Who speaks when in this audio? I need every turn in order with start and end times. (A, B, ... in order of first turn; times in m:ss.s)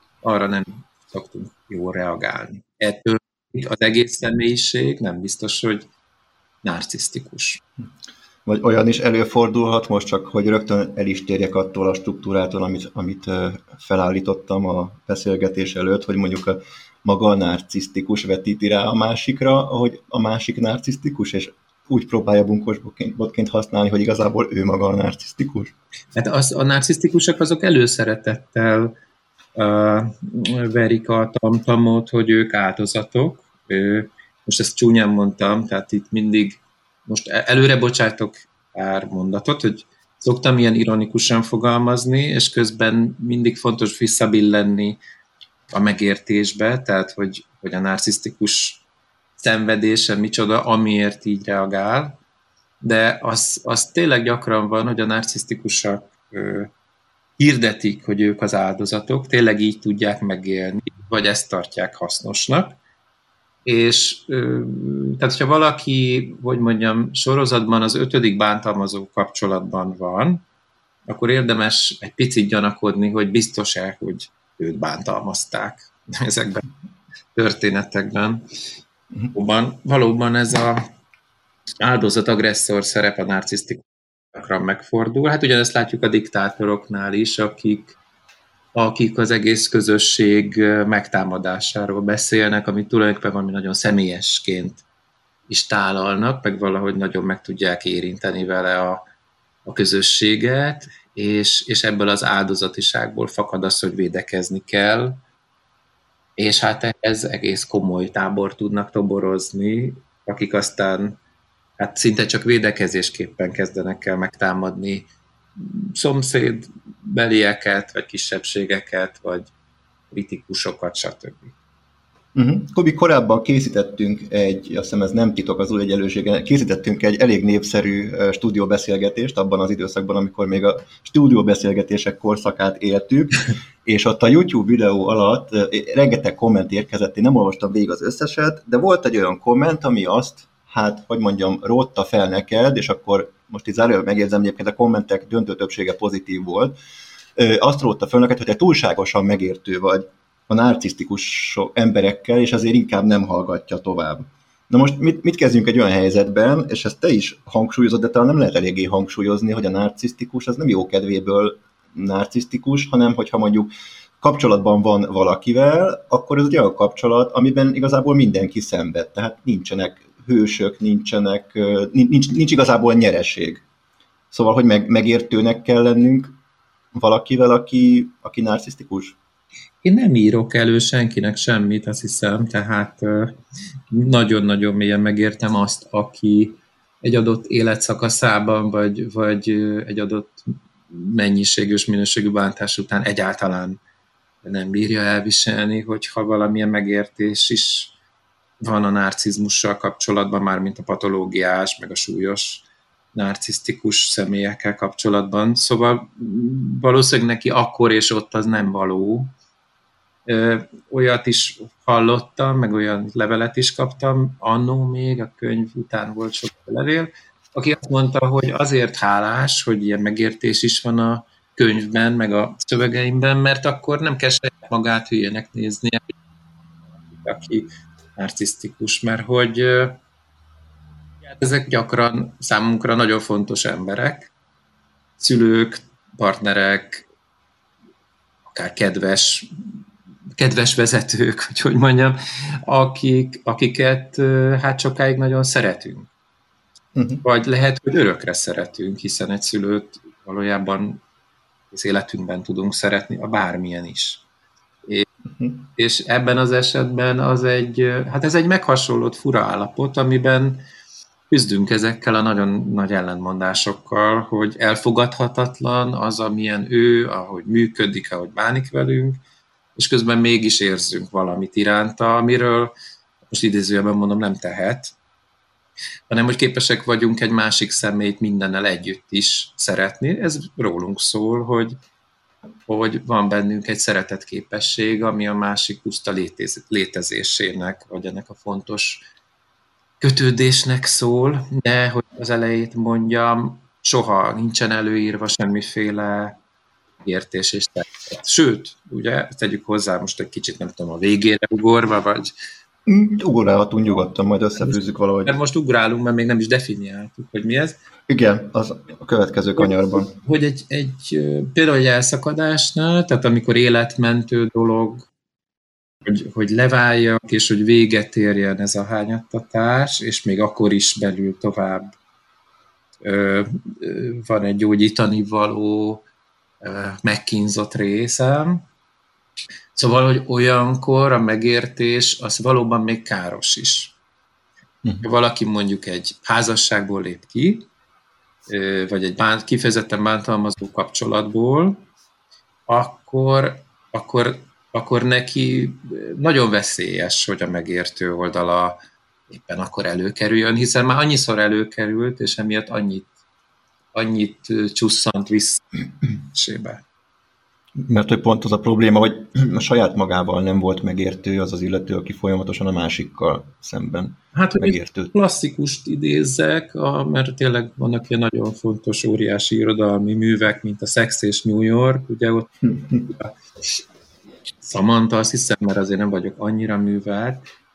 0:00.2-0:05.9 A
0:06.6-0:07.6 A
0:08.5-0:25.7 B
0:26.2-0:29.0 A
0:29.6-0:45.0 A
0:45.7-0:48.8 A
0:49.4-0:52.2 A
0:52.8-0:56.7 A
0:57.4-1:02.8 A
1:03.7-1:10.4 A
1:11.1-1:16.6 A
1:17.4-1:18.4 A
1:19.3-1:20.8 A
1:21.8-1:28.0 A
1:28.8-1:34.8 A
1:35.5-1:39.0 A
1:39.6-1:45.2 A
1:46.4-1:51.2 A
1:51.8-1:59.5 A
2:00.1-2:01.6 A
2:02.4-2:26.8 B
2:27.4-2:43.7 B
2:44.2-2:53.6 B
2:54.3-2:56.4 B
2:56.9-2:59.2 B
2:59.8-3:03.4 A
3:03.9-3:13.8 A
3:14.4-3:17.9 A
3:18.6-3:29.3 A
3:30.3-3:46.0 A
3:47.1-3:50.0 A
3:51.2-3:54.3 A
3:55.2-3:57.1 A
3:58.5-3:59.8 A
4:00.4-4:06.1 A
4:07.0-4:07.2 B
4:07.2-4:11.0 A
4:11.7-4:14.2 A
4:15.3-4:15.7 B
4:15.8-4:20.6 A
4:21.3-4:29.2 A
4:29.8-4:32.7 A
4:33.3-4:35.0 A
4:36.1-4:41.8 A
4:42.7-4:49.0 A
4:50.0-4:56.4 A
4:57.0-5:02.3 A
5:02.9-5:05.3 B
5:04.6-5:07.8 A
5:08.1-5:10.2 B
5:09.6-5:15.1 A
5:16.0-5:21.9 A
5:23.0-5:26.0 A
5:26.6-5:28.6 A
5:29.8-5:34.0 A
5:35.0-5:37.7 A
5:38.5-5:41.8 A
5:42.7-5:48.8 A
5:49.3-5:53.1 A
5:53.9-5:56.8 A
5:57.8-6:05.1 B
6:04.3-6:13.4 A
6:14.6-6:17.4 A